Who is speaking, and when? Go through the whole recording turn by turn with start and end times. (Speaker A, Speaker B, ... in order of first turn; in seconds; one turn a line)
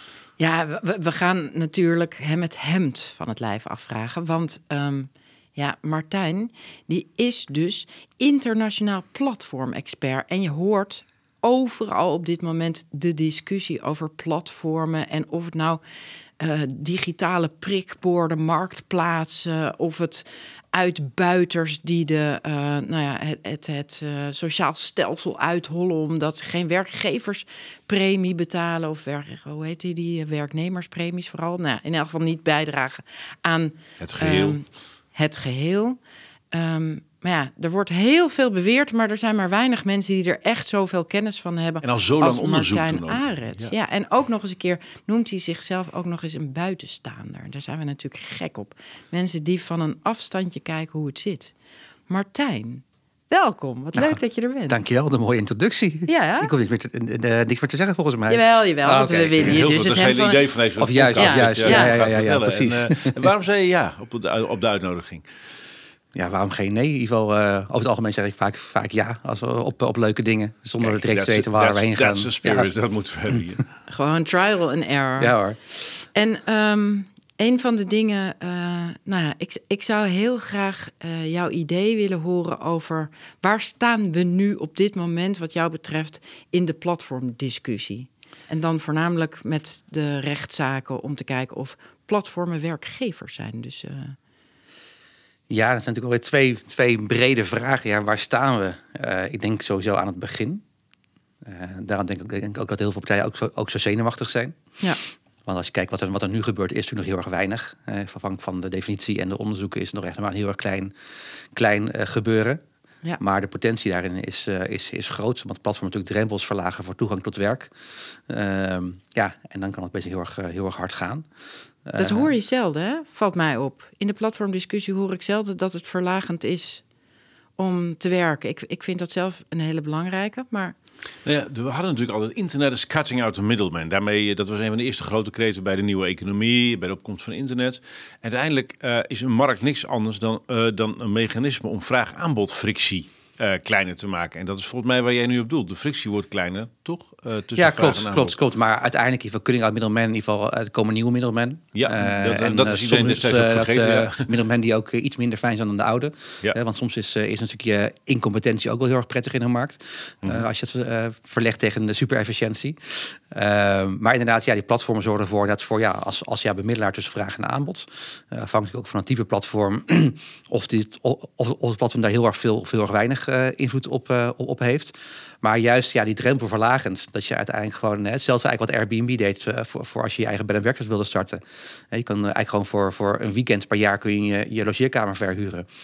Speaker A: 0.4-15.8
Speaker A: 16.4-36.0
Speaker B: 34.0-34.6
Speaker A: 36.5-51.5
Speaker B: 41.8-43.7
Speaker A: 52.1-54.8
Speaker C: 54.0-59.6
Speaker A: 56.1-56.5
Speaker A: 58.3-60.5
Speaker B: 59.4-65.3
Speaker C: 60.8-63.2
Speaker A: 61.1-62.0
Speaker C: 66.2-72.7
Speaker B: 70.8-73.7
Speaker A: 73.9-75.3
Speaker C: 75.2-75.8
Speaker A: 76.1-94.2
Speaker C: 95.5-100.6
Speaker C: 101.4-104.6
Speaker C: 105.5-112.6
Speaker C: 113.2-121.3
Speaker C: 121.8-122.3
Speaker A: 122.0-126.8
Speaker A: 127.6-130.8
Speaker B: 131.2-148.3
Speaker C: 147.6-185.7
Speaker B: 151.7-154.3